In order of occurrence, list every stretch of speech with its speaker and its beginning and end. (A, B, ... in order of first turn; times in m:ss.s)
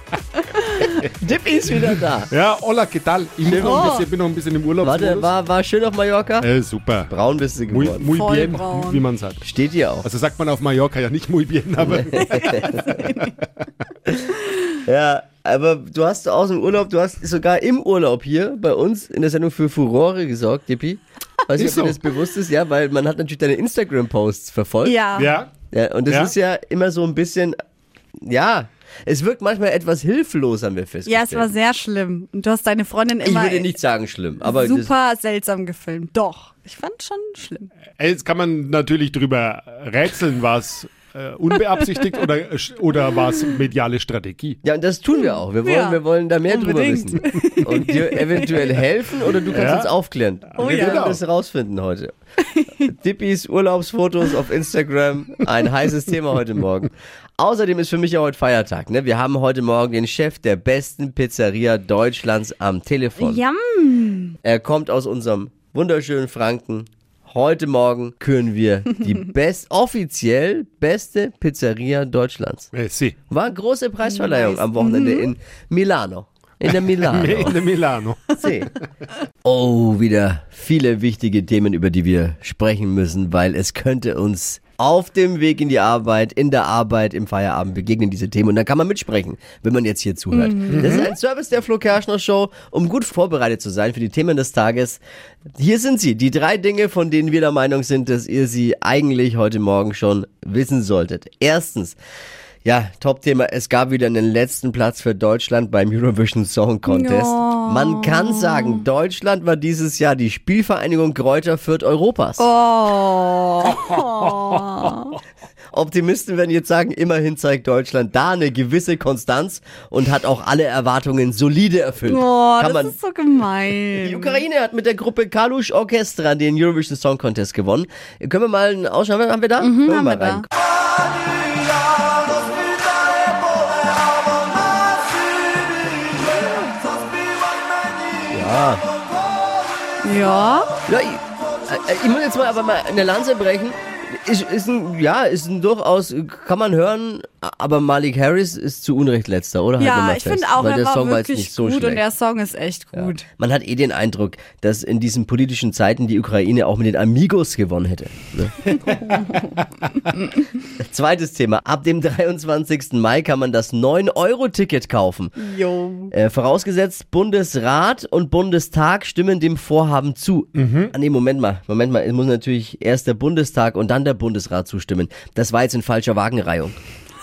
0:00.4-0:01.0 A
0:01.2-0:02.3 B
0:01.8-0:05.3 C
0:03.4-0:03.8 B
0:03.5-0:04.1 A
0:04.8-0:06.5 B
0:06.4-0:07.1 C
0:07.0-0:08.1 B
0:07.7-0:09.4 C
0:08.0-0:09.0 A
0:09.4-0:10.1 B
0:10.0-0:13.6 C
0:11.8-0:13.0 B
0:12.2-0:13.3 A
0:14.1-0:25.0 B
0:21.6-0:22.0 C
0:24.8-0:25.3 A
0:25.1-0:25.5 C
0:25.7-0:27.6 B
0:26.1-0:26.3 C
0:28.2-0:31.5 B
0:31.0-0:33.7 A
0:33.2-0:34.9 B
0:34.4-0:37.7 A
0:38.0-0:44.6 C
0:44.6-0:52.1 B
0:45.2-0:48.7 A
0:49.5-0:49.9 C
0:50.5-0:51.2 C
0:50.6-0:51.1 A
0:52.8-1:03.4 B
1:03.2-1:04.4 A
1:04.4-1:12.7 B
1:12.7-1:13.2 C
1:13.3-1:17.7 B
1:14.0-1:15.3 A
1:16.7-1:18.4 C
1:18.4-1:18.7 B
1:19.4-1:35.0 B
1:30.3-1:31.1 A
1:30.7-1:31.1 C
1:35.6-1:42.0 B
1:42.6-1:52.5 B
1:46.8-1:48.8 A
1:52.4-1:55.2 A
1:55.7-2:02.9 B
2:02.0-2:04.4 A
2:04.0-2:10.5 B
2:09.6-2:10.4 A
2:18.3-2:18.8 B
2:20.0-2:20.7 A
2:20.9-2:32.0 B
2:29.8-2:33.2 A
2:32.9-2:38.7 B
2:38.7-2:39.1 C
2:38.9-2:39.4 A
2:40.8-2:45.4 B
2:45.4-2:46.1 A
2:46.1-2:56.8 B
2:50.6-2:50.9 C